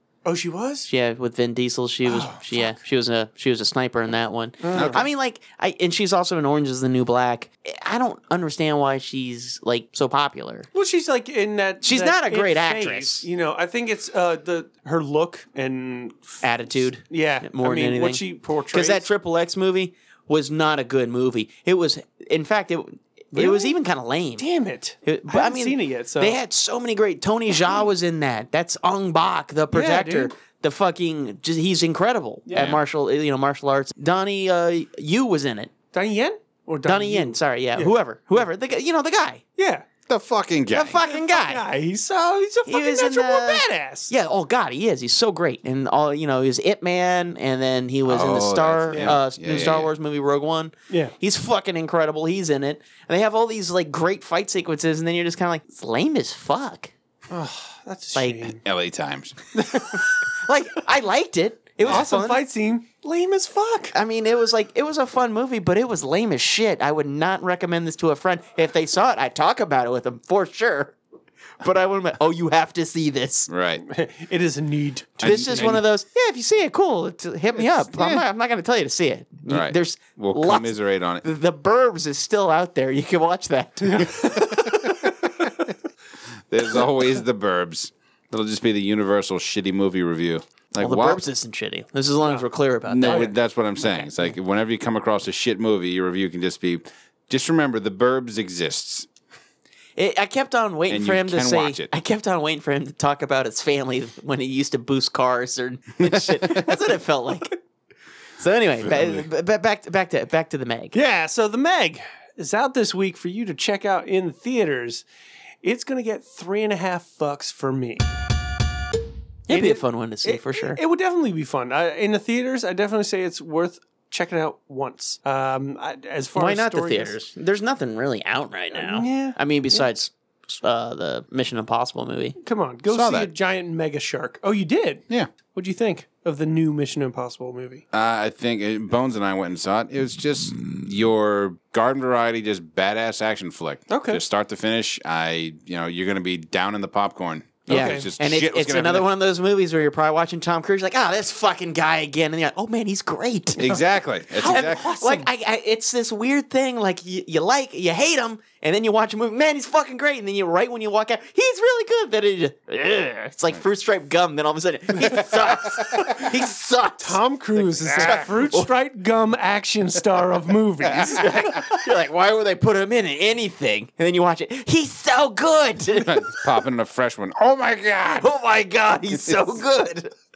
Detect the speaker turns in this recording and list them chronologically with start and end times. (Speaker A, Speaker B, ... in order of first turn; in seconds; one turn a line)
Speaker A: 0.2-0.9
Speaker B: 0.9-10.7
Speaker A: 2.0-2.8
Speaker A: 4.6-5.0
Speaker C: 4.7-5.0
Speaker A: 10.7-19.1
Speaker B: 11.8-13.3
Speaker B: 16.4-24.4
Speaker A: 23.3-23.8
Speaker A: 24.4-26.4
Speaker B: 25.1-35.7
Speaker A: 29.7-30.3
Speaker A: 32.5-32.8
Speaker C: 32.5-32.8
Speaker A: 35.9-38.4
Speaker B: 36.9-39.4
Speaker A: 39.6-39.9
Speaker C: 40.1-41.0
Speaker B: 40.7-41.6
Speaker A: 41.0-44.1
Speaker B: 42.7-56.9
Speaker C: 48.0-49.9
Speaker A: 48.9-49.7
Speaker A: 57.3-58.6
Speaker B: 58.1-58.5
Speaker C: 58.6-59.4
Speaker A: 59.6-60.0
Speaker B: 59.7-62.4
Speaker A: 61.9-64.0
Speaker B: 63.9-71.0
Speaker B: 71.6-73.5
Speaker C: 73.5-73.8
Speaker A: 73.8-75.7
Speaker C: 75.2-75.8
Speaker B: 75.2-84.4
Speaker C: 77.6-78.2
Speaker C: 79.5-81.2
Speaker A: 83.8-85.0
Speaker C: 84.4-85.1
Speaker C: 86.5-91.2
Speaker B: 90.8-93.3
Speaker C: 92.9-99.1
Speaker A: 93.0-93.3
Speaker B: 100.0-107.5
Speaker C: 100.9-101.9
Speaker C: 106.1-106.5
Speaker B: 108.4-111.0
Speaker C: 108.8-109.3
Speaker A: 110.9-115.0
Speaker A: 115.6-118.2
Speaker B: 119.5-120.8
Speaker A: 119.5-127.2
Speaker B: 126.4-132.4
Speaker A: 128.7-129.8
Speaker A: 132.4-137.8
Speaker C: 132.9-133.3
Speaker C: 137.9-149.1
Speaker A: 143.9-144.2
Speaker B: 147.7-153.8
Speaker A: 147.7-148.1
Speaker C: 153.6-154.8
Speaker A: 154.4-155.3
Speaker B: 154.4-168.7
Speaker A: 165.2-165.7
Speaker A: 167.0-171.6
Speaker C: 167.9-168.3
Speaker B: 171.1-176.3
Speaker C: 176.0-178.3
Speaker B: 178.2-180.1